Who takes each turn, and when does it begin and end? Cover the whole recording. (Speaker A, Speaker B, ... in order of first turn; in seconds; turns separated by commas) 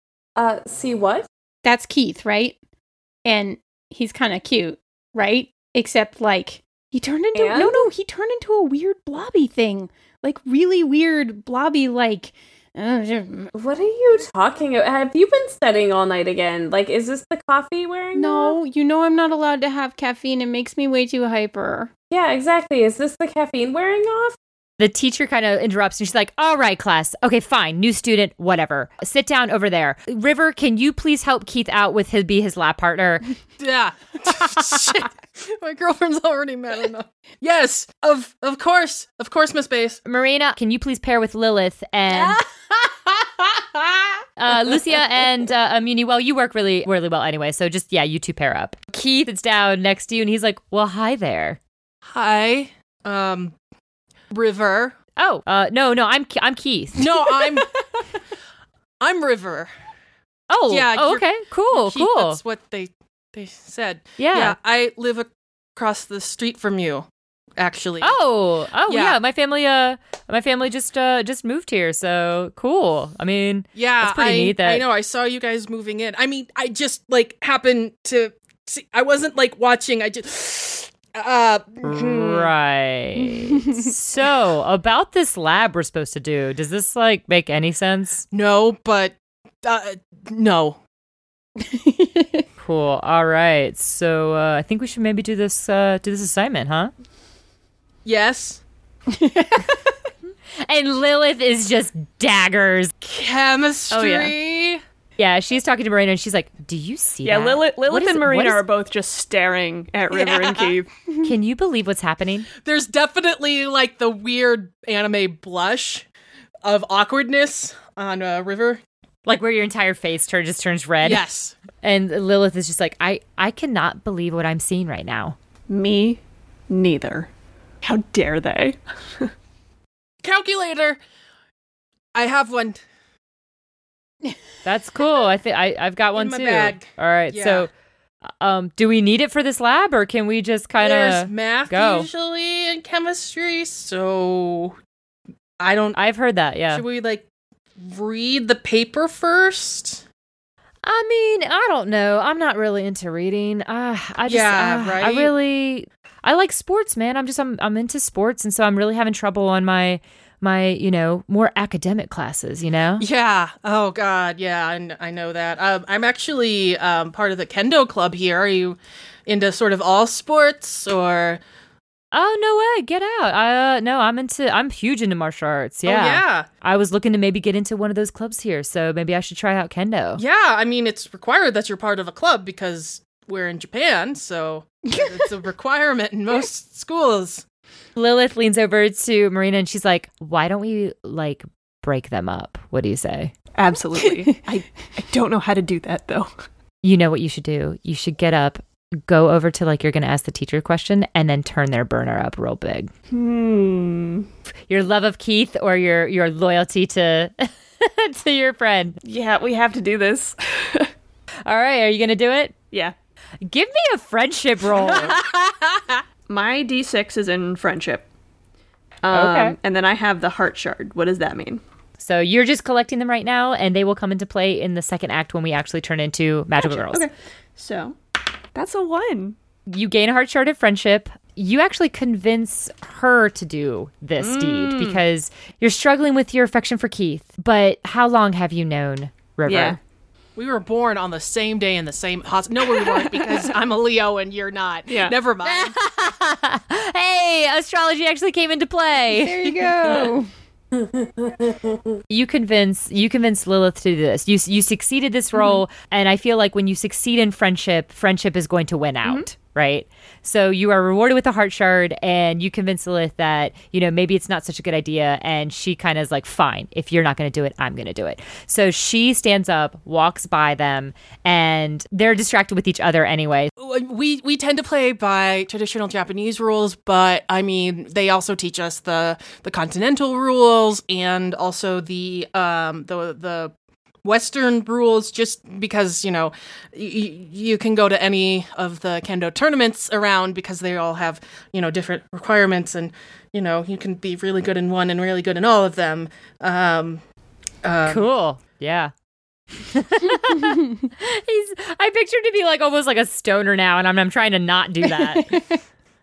Speaker A: 0.4-1.3, Speaker B: 1.6-2.6, Speaker B: 3.3-13.5, Speaker A: 7.3-7.9, Speaker A: 13.6-18.6, Speaker B: 18.1-21.9, Speaker A: 22.1-24.4, Speaker C: 24.8-33.3, Speaker D: 33.6-40.0, Speaker C: 40.1-42.4, Speaker C: 44.4-51.6, Speaker D: 52.0-53.5, Speaker D: 54.3-55.0, Speaker C: 55.2-57.2, Speaker D: 57.0-57.7, Speaker D: 59.0-59.7, Speaker C: 60.5-62.4, Speaker D: 60.7-68.2, Speaker C: 64.2-64.5, Speaker C: 68.0-74.8, Speaker D: 68.9-69.2, Speaker D: 73.8-82.5, Speaker C: 81.8-88.2, Speaker B: 83.4-83.9, Speaker D: 88.3-90.8, Speaker B: 91.6-92.5, Speaker C: 92.6-96.9, Speaker D: 98.0-98.6, Speaker B: 99.1-100.0, Speaker C: 100.7-102.9, Speaker D: 103.0-104.8, Speaker E: 103.9-104.3, Speaker C: 105.2-108.6, Speaker E: 107.2-110.9, Speaker D: 110.1-110.8, Speaker C: 111.2-112.5, Speaker D: 112.6-116.1, Speaker D: 116.7-118.8, Speaker C: 119.2-121.2, Speaker D: 121.0-121.5, Speaker C: 121.8-125.4, Speaker E: 125.7-127.3, Speaker E: 127.8-129.3, Speaker D: 130.2-131.0, Speaker D: 132.2-132.8, Speaker C: 134.6-137.7, Speaker D: 136.2-137.7, Speaker C: 138.3-142.1, Speaker D: 140.8-144.8, Speaker D: 145.6-146.0, Speaker C: 145.9-146.8, Speaker D: 146.7-147.3, Speaker D: 147.8-150.0, Speaker C: 150.8-163.1, Speaker D: 154.3-155.3, Speaker D: 163.0-171.4, Speaker C: 172.1-180.2, Speaker D: 175.8-176.5, Speaker D: 180.2-187.4, Speaker B: 184.9-185.1, Speaker C: 188.0-193.3, Speaker E: 193.6-196.3, Speaker B: 194.0-194.4, Speaker C: 196.8-202.9, Speaker E: 203.1-204.3, Speaker C: 204.7-209.0, Speaker E: 209.0-210.9, Speaker C: 211.5-212.5, Speaker C: 213.4-215.2, Speaker D: 214.9-215.9, Speaker E: 216.3-218.1, Speaker E: 219.0-221.6, Speaker C: 219.1-219.6, Speaker C: 222.0-227.1, Speaker E: 226.6-228.0, Speaker E: 228.5-229.4, Speaker C: 229.7-239.8, Speaker E: 234.2-235.0, Speaker E: 239.5-239.8, Speaker D: 240.4-245.8, Speaker E: 244.9-245.2, Speaker C: 245.4-249.6, Speaker B: 249.1-250.3, Speaker A: 250.7-252.0, Speaker C: 252.1-273.5, Speaker D: 273.6-283.5, Speaker D: 284.0-297.0, Speaker D: 297.6-298.1, Speaker C: 297.9-298.9, Speaker C: 299.6-305.4, Speaker B: 300.3-300.9, Speaker B: 304.9-305.6